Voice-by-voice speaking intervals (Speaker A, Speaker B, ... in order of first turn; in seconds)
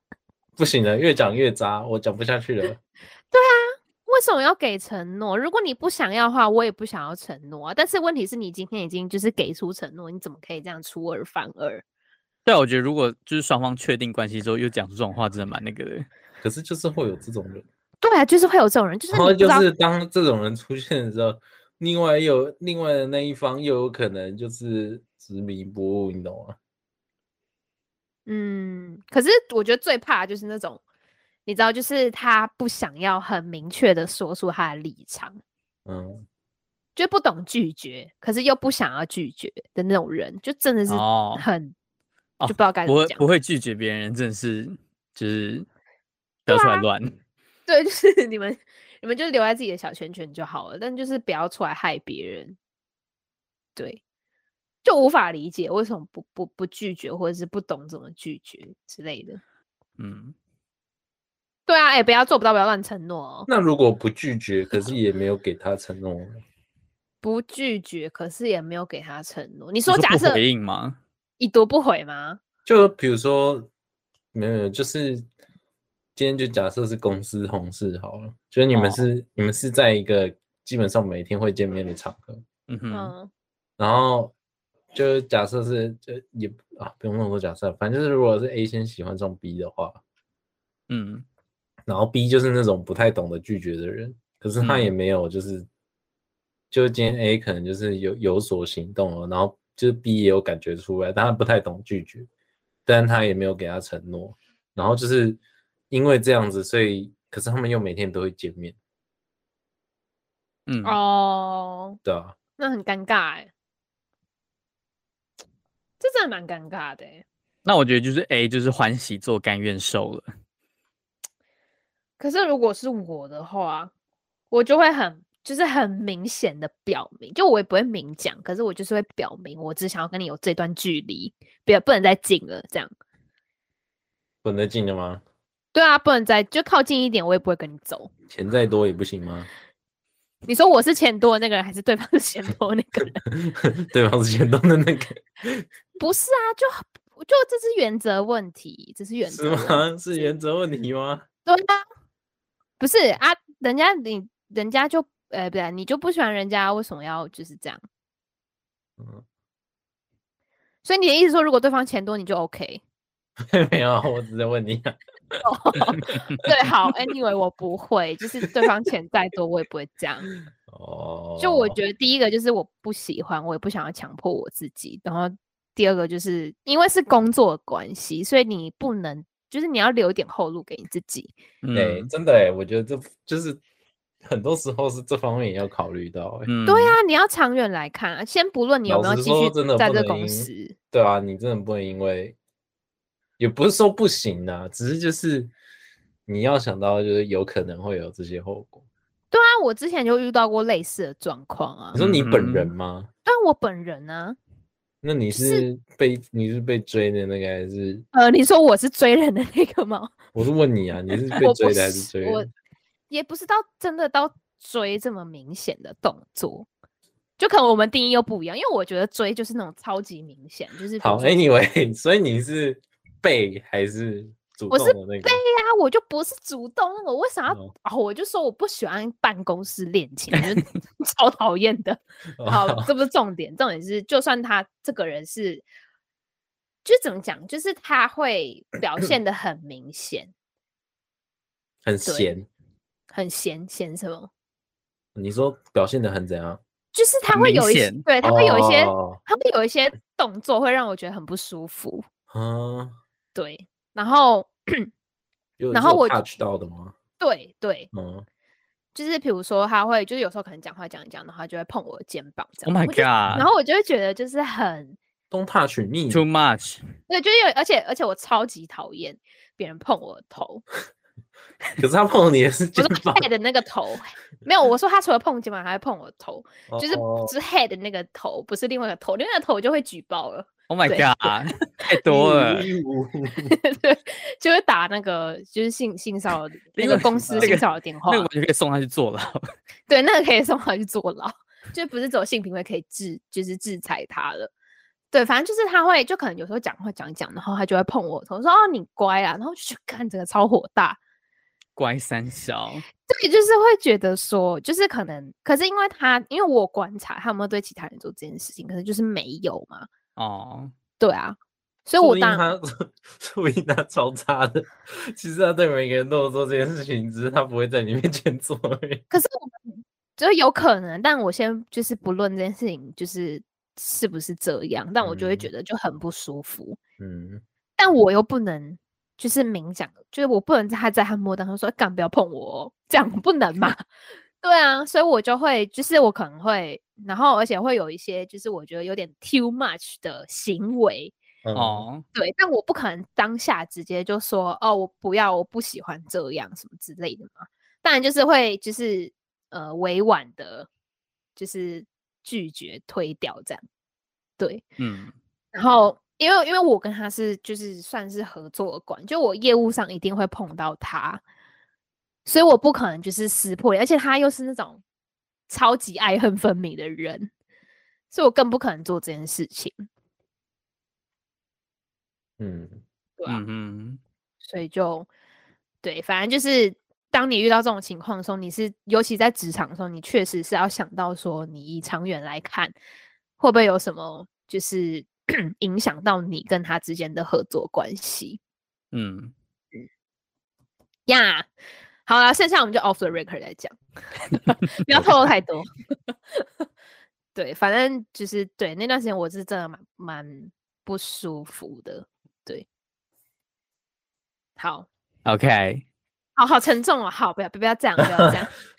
Speaker A: 0.6-2.8, 16.4-17.6, 19.1-26.6, 35.9-36.2, 63.5-66.4, 72.7-73.7, 74.3-75.3, 76.2-82.4, 83.8-84.3, 84.9-90.0, 91.9-95.7, 96.7-102.3, 102.9-105.4, 105.9-108.8, 112.0-112.4, 134.4-135.2, 138.3-139.5, 143.3-145.7, 149.2-151.2, 159.0-159.2, 163.5-165.4, 170.7-171.8, 181.7-183.6, 184.2-186.5, 188.9-192.4, 193.4-195.5, 196.3-198.8, 201.9-203.1, 205.0-208.1, 210.3-212.5, 221.0-225.4, 232.4-232.9, 241.8-242.5, 245.2-246.6, 248.2-249.2, 252.3-253.0, 255.6-256.9, 257.9-258.2, 265.3-266.2, 271.8-273.3, 276.7-277.3, 282.1-283.6, 286.9-287.6, 312.0-319.1, 325.0-325.5, 327.0-327.4, 341.4-341.9, 372.4-372.8, 408.0-408.4
Speaker B: 3.3-11.8, 18.0-19.7, 28.3-30.8, 31.5-35.4, 37.0-41.7, 42.5-43.2, 46.5-46.9, 47.7-52.6, 54.8-59.4, 61.7-63.5, 67.2-70.4, 71.4-72.4, 82.9-83.3, 110.8-112.0, 112.6-113.5, 116.0-117.2, 122.2-123.9, 124.5-132.9, 135.7-138.1, 140.5-143.2, 146.0-149.8, 151.5-151.8, 152.8-157.8, 160.8-162.8, 165.4-170.3, 171.4-181.3, 186.7-190.8, 199.3-202.0, 203.2-204.4, 205.3-205.7, 208.1-210.2, 211.4-212.5, 213.1-216.7, 217.4-221.4, 224.7-235.6, 236.8-240.3, 242.1-242.3, 243.1-244.3, 246.9-252.1, 253.3-254.9, 255.7-256.2, 257.2-257.9, 258.9-265.0, 267.1-270.6, 272.8-281.1, 283.5-288.3, 289.9-294.5, 295.1-301.0, 303.1-309.9, 311.0-312.5, 319.1-326.8, 327.8-333.8, 334.4-341.1, 342.1-350.7, 351.4-353.6, 354.4-354.6, 355.5-361.2, 362.3-364.8, 365.5-367.3, 368.1-369.9, 374.4-375.1, 375.8-382.8, 383.4-388.4, 391.1-391.5, 392.1-396.5, 397.4-402.7, 404.6-404.9, 406.4-408.5
Speaker C: 12.5-16.1, 40.9-41.5, 42.4-45.7, 46.5-47.2, 60.0-60.3, 69.9-71.0, 78.7-79.0, 82.7-83.1, 90.9-91.2, 94.6-94.9, 110.7-111.0, 117.7-120.3, 181.6-182.1, 186.5-187.0, 202.0-202.7, 247.3-248.1, 262.7-263.5, 266.1-266.8, 280.7-282.7, 286.8-289.5, 301.8-302.9, 310.2-310.7, 341.6-342.1, 354.8-355.1, 373.3-374.0, 388.9-389.3, 405.2-405.8